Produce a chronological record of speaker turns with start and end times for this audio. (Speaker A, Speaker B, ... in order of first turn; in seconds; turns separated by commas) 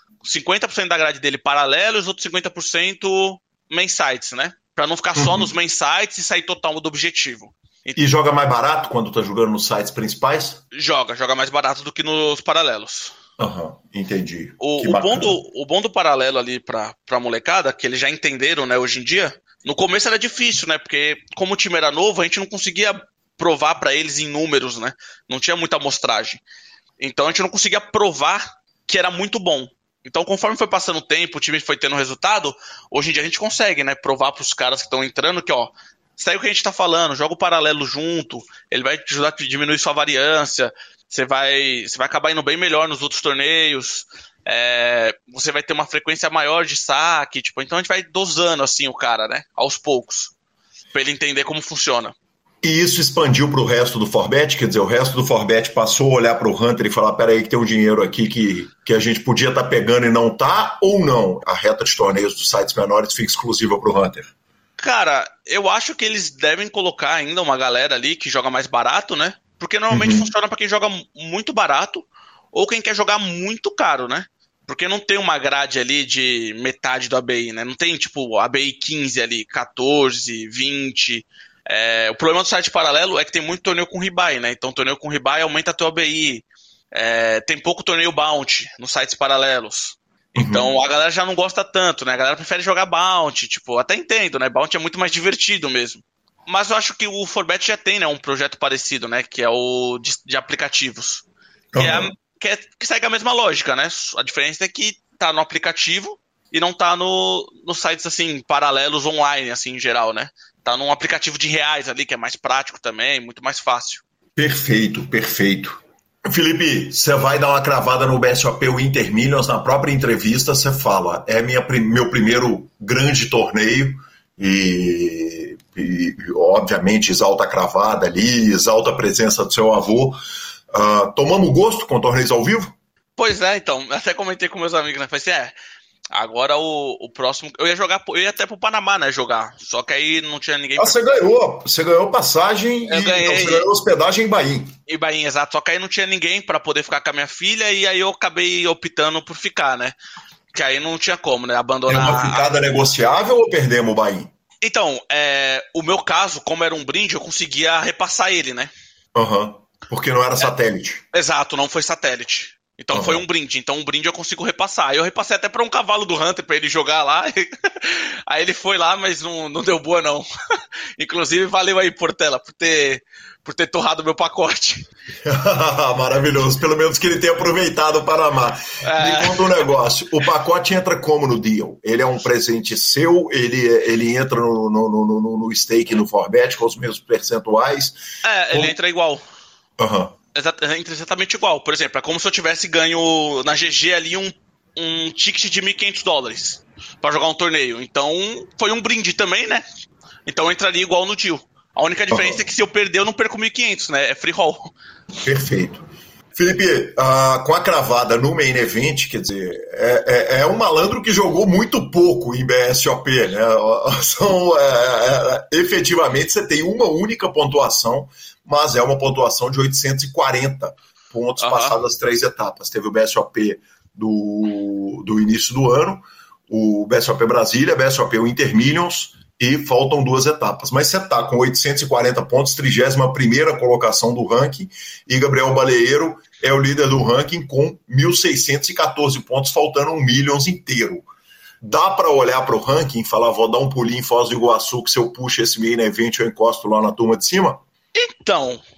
Speaker A: 0.2-8.0, Speaker B: 5.2-5.5, Speaker B: 8.0-10.6, Speaker A: 10.7-13.1, Speaker B: 13.4-15.3, Speaker A: 14.6-26.4, Speaker A: 27.0-50.3, Speaker A: 50.9-52.1, Speaker B: 52.6-64.3, Speaker A: 64.8-101.3, Speaker B: 69.9-70.3, Speaker B: 90.4-90.7, Speaker B: 101.7-102.1, Speaker A: 101.8-114.0, Speaker B: 114.4-130.2, Speaker B: 130.7-132.7, Speaker A: 133.2-135.6, Speaker A: 136.1-141.0, Speaker B: 140.8-144.7, Speaker A: 142.9-143.7, Speaker A: 144.9-150.0, Speaker A: 150.5-152.5, Speaker B: 151.9-154.3, Speaker A: 154.6-158.7, Speaker B: 159.2-161.0, Speaker A: 161.1-170.3, Speaker B: 162.9-163.2, Speaker A: 171.0-174.9, Speaker B: 175.2-188.0, Speaker A: 178.8-179.5, Speaker A: 188.2-189.2, Speaker B: 189.8-190.2, Speaker A: 190.3-199.6, Speaker A: 200.3-204.7, Speaker B: 202.1-202.4, Speaker B: 205.2-241.1, Speaker A: 221.4-221.7, Speaker B: 241.6-247.6, Speaker A: 247.9-248.6